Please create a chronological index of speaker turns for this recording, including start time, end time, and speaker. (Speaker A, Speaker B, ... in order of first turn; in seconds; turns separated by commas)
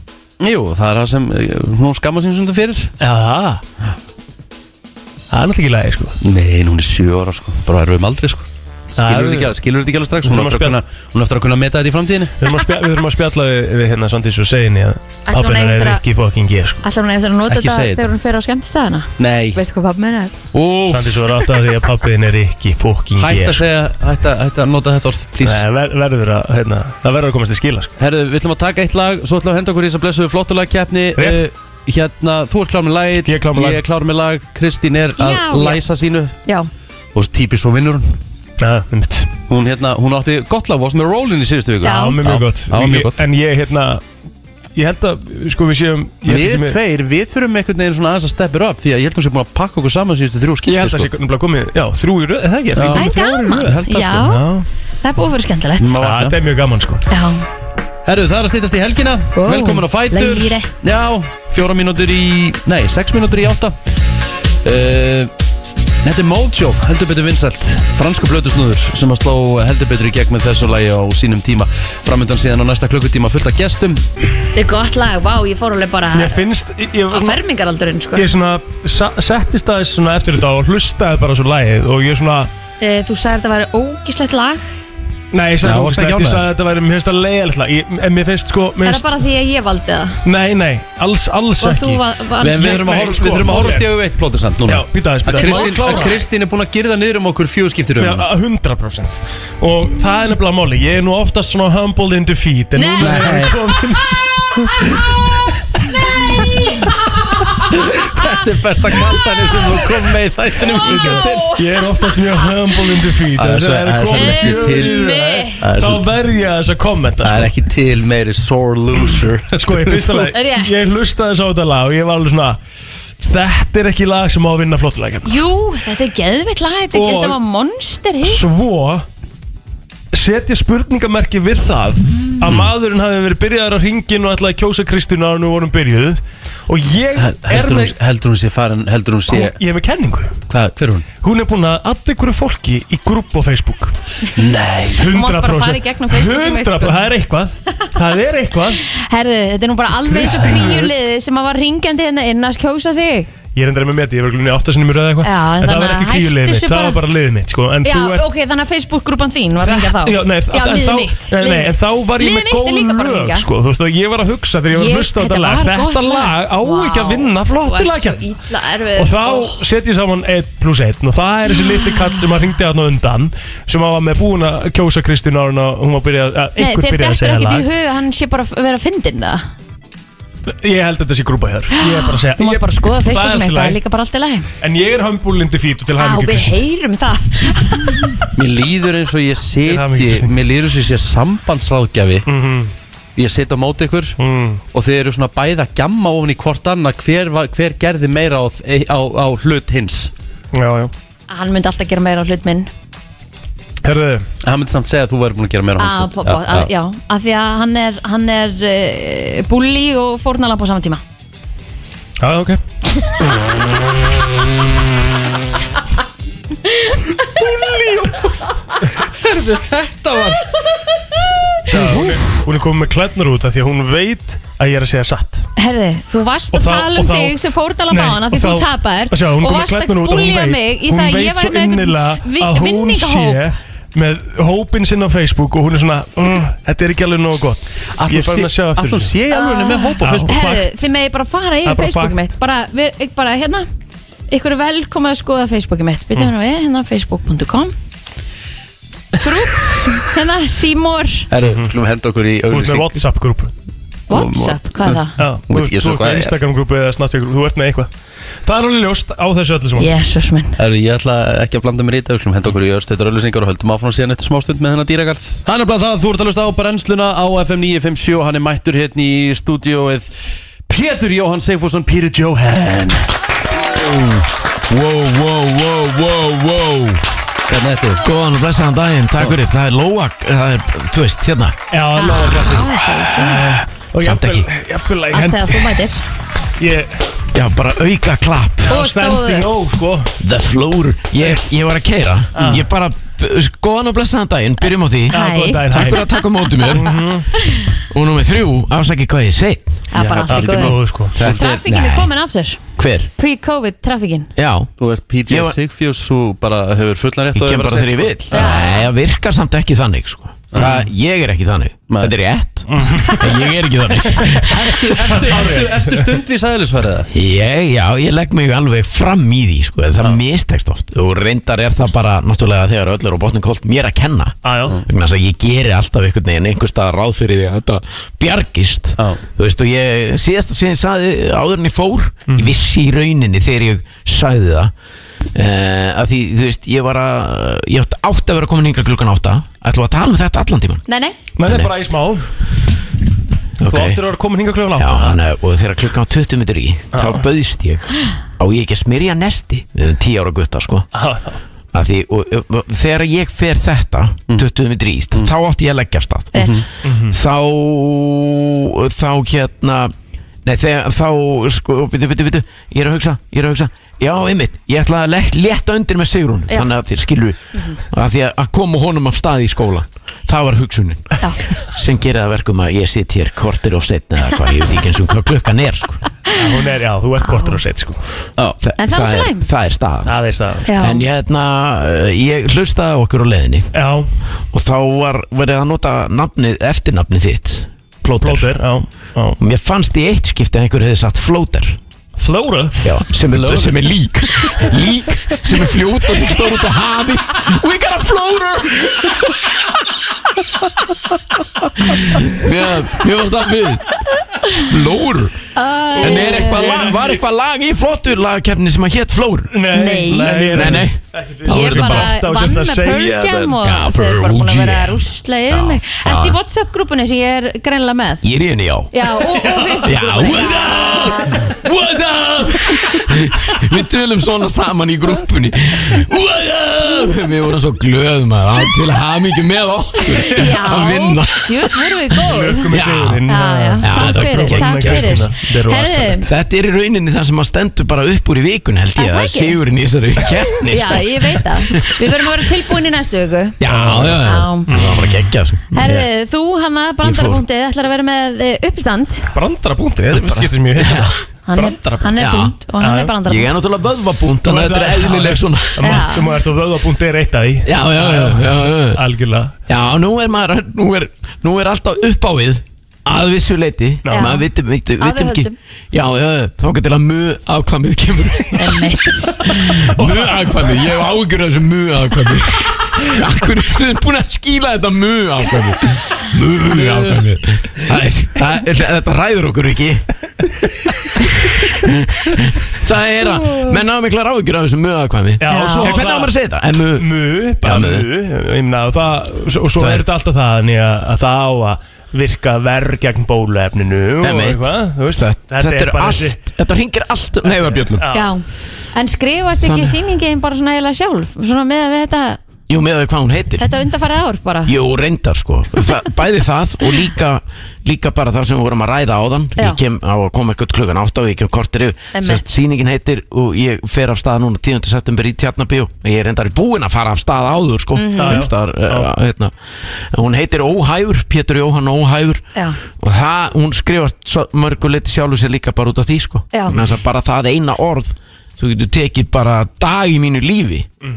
Speaker A: 0.4-3.0, Speaker B: 3.0-3.6, Speaker B: 5.3-6.2, Speaker A: 6.2-12.4, Speaker B: 9.0-9.5, Speaker B: 10.2-10.8, Speaker B: 12.4-16.8, Speaker C: 15.3-16.0, Speaker C: 16.8-20.4, Speaker A: 17.5-18.1, Speaker A: 19.2-19.6, Speaker D: 20.6-20.9, Speaker B: 20.9-23.6, Speaker A: 23.2-25.6, Speaker B: 25.4-27.9, Speaker A: 28.0-36.4, Speaker B: 33.2-33.8, Speaker C: 35.2-35.8, Speaker A: 37.1-38.2, Speaker B: 38.6-39.3, Speaker A: 39.5-43.2, Speaker C: 41.8-42.2, Speaker B: 41.8-44.0, Speaker B: 44.8-46.8, Speaker A: 46.3-51.1, Speaker B: 50.7-54.7, Speaker A: 52.7-54.3, Speaker C: 53.0-54.4, Speaker C: 55.0-56.0, Speaker A: 55.8-56.4, Speaker B: 56.0-57.0, Speaker C: 57.1-57.4, Speaker A: 58.0-63.8, Speaker C: 59.4-60.7, Speaker A: 64.6-65.3, Speaker A: 66.0-74.0, Speaker C: 74.5-76.4, Speaker B: 76.1-77.4, Speaker C: 77.1-78.3, Speaker B: 78.2-82.5, Speaker C: 82.8-84.6, Speaker B: 85.3-89.1, Speaker A: 85.6-86.5, Speaker C: 88.8-90.2, Speaker B: 90.2-93.9, Speaker C: 91.6-92.8, Speaker A: 92.4-98.3, Speaker B: 94.7-96.2, Speaker C: 95.3-96.0, Speaker B: 98.0-104.4, Speaker C: 102.8-103.3, Speaker A: 103.0-103.6, Speaker A: 107.7-111.6, Speaker B: 110.8-117.5, Speaker C: 111.1-111.6, Speaker A: 113.4-116.1, Speaker C: 114.1-115.6, Speaker A: 117.2-120.3, Speaker B: 119.2-122.6, Speaker C: 120.3-121.0, Speaker B: 123.2-125.4, Speaker C: 125.2-128.4, Speaker B: 126.9-127.4, Speaker B: 128.2-129.1, Speaker B: 130.1-137.9, Speaker A: 132.4-132.7, Speaker A: 137.2-139.6, Speaker B: 139.3-140.4, Speaker A: 140.5-141.1, Speaker B: 141.2-144.0, Speaker A: 144.4-145.1, Speaker B: 145.0-148.8, Speaker C: 145.1-147.0, Speaker C: 148.8-153.3, Speaker B: 150.1-150.9, Speaker B: 153.6-158.2, Speaker C: 155.2-157.0, Speaker C: 157.8-163.5, Speaker B: 159.6-168.2, Speaker C: 164.7-169.6, Speaker B: 169.0-177.7, Speaker C: 176.6-179.4, Speaker B: 180.5-183.8, Speaker C: 181.7-184.5, Speaker B: 184.6-186.6, Speaker C: 186.0-188.1, Speaker A: 188.4-192.3, Speaker B: 189.7-190.3, Speaker B: 192.3-192.7, Speaker A: 193.2-194.2, Speaker B: 194.2-194.6, Speaker A: 194.7-200.1, Speaker B: 200.5-200.9, Speaker C: 201.3-202.7, Speaker B: 203.8-204.3, Speaker A: 204.4-206.7, Speaker C: 205.8-211.0, Speaker B: 212.2-212.6, Speaker A: 219.2-220.4, Speaker B: 221.7-225.5, Speaker A: 221.7-222.1, Speaker C: 225.6-233.4, Speaker B: 226.5-239.1, Speaker A: 238.0-240.4, Speaker C: 239.3-243.7, Speaker B: 240.0-240.9, Speaker B: 241.7-242.2, Speaker C: 244.3-247.7, Speaker C: 249.2-251.3, Speaker A: 251.3-253.1, Speaker B: 251.4-251.7, Speaker B: 252.5-253.5, Speaker C: 254.1-255.2, Speaker A: 254.1-256.4, Speaker B: 255.2-257.9, Speaker B: 258.4-259.9, Speaker C: 259.8-260.6, Speaker A: 260.6-273.1, Speaker D: 273.7-277.0, Speaker A: 277.5-278.1, Speaker D: 278.0-281.6, Speaker B: 281.7-285.7, Speaker C: 282.0-283.4, Speaker D: 284.0-284.5, Speaker C: 285.1-286.0, Speaker B: 286.6-287.0, Speaker D: 287.3-288.7, Speaker B: 288.7-290.1, Speaker C: 288.7-289.5, Speaker D: 290.2-295.2, Speaker B: 292.4-292.7, Speaker C: 295.1-296.2, Speaker B: 295.1-296.1, Speaker D: 295.7-297.1, Speaker B: 296.7-297.3, Speaker D: 297.9-302.1, Speaker C: 299.9-302.6, Speaker B: 300.0-301.2, Speaker D: 302.8-303.1, Speaker C: 303.2-304.3, Speaker D: 304.4-304.7, Speaker A: 304.8-308.5, Speaker D: 305.3-305.6, Speaker D: 307.3-314.6, Speaker C: 308.3-308.9, Speaker A: 310.5-310.8, Speaker A: 311.9-312.2, Speaker B: 312.7-313.3, Speaker B: 314.1-316.1, Speaker A: 314.5-317.1, Speaker D: 317.1-334.7, Speaker B: 324.4-324.8, Speaker D: 335.4-340.8, Speaker C: 340.9-341.2, Speaker B: 341.4-342.3, Speaker D: 341.4-341.7, Speaker D: 343.6-344.0, Speaker B: 343.7-345.2, Speaker D: 344.8-350.9, Speaker B: 346.9-347.2, Speaker B: 350.9-351.4, Speaker D: 351.7-356.5, Speaker C: 356.3-356.6, Speaker A: 356.4-356.6, Speaker B: 356.8-357.2, Speaker D: 357.1-359.9, Speaker D: 360.4-376.0, Speaker B: 376.3-378.0, Speaker C: 377.3-377.6, Speaker D: 378.6-383.7, Speaker C: 378.8-379.5, Speaker B: 380.1-380.7, Speaker C: 380.7-381.1, Speaker B: 383.7-384.1, Speaker D: 384.5-388.7, Speaker B: 388.2-389.4, Speaker D: 389.4-391.8, Speaker B: 392.2-392.9, Speaker D: 392.8-399.1, Speaker D: 401.9-405.4, Speaker C: 405.6-406.7, Speaker B: 406.0-407.2, Speaker D: 406.0-412.1, Speaker B: 409.5-413.6, Speaker C: 409.7-410.8, Speaker C: 411.5-418.3, Speaker D: 413.6-416.4, Speaker D: 418.2-418.9, Speaker C: 418.9-421.5, Speaker B: 419.2-419.9, Speaker D: 419.8-431.5, Speaker C: 430.1-432.7, Speaker B: 432.2-436.2, Speaker D: 432.7-433.2, Speaker C: 433.3-436.3, Speaker D: 433.8-435.3, Speaker D: 436.2-442.2, Speaker C: 439.0-439.6, Speaker C: 440.6-443.6, Speaker B: 440.7-441.1, Speaker D: 443.6-446.1, Speaker B: 443.7-445.2, Speaker C: 444.2-444.7, Speaker C: 445.7-449.3, Speaker D: 447.0-447.4, Speaker B: 449.3-452.1, Speaker D: 450.1-451.2, Speaker C: 451.5-453.5, Speaker D: 452.2-452.6, Speaker B: 452.8-453.1, Speaker D: 453.2-456.1, Speaker B: 454.4-459.5, Speaker C: 455.8-456.3, Speaker D: 457.6-459.0, Speaker D: 459.7-480.1, Speaker B: 464.0-464.3, Speaker C: 464.1-464.5, Speaker C: 465.0-465.6, Speaker C: 468.6-469.7, Speaker B: 470.0-470.5, Speaker D: 481.2-487.1, Speaker B: 485.4-486.3, Speaker C: 485.5-486.0, Speaker B: 487.0-496.4, Speaker D: 487.6-488.1, Speaker D: 489.8-490.1, Speaker D: 494.2-498.1, Speaker B: 497.4-498.3, Speaker C: 498.1-502.4, Speaker D: 499.6-499.9, Speaker D: 502.7-503.7, Speaker C: 503.6-504.7, Speaker D: 504.7-519.5, Speaker C: 512.1-512.5, Speaker C: 518.0-518.5, Speaker B: 518.2-519.1, Speaker D: 520.1-522.5, Speaker D: 523.0-530.9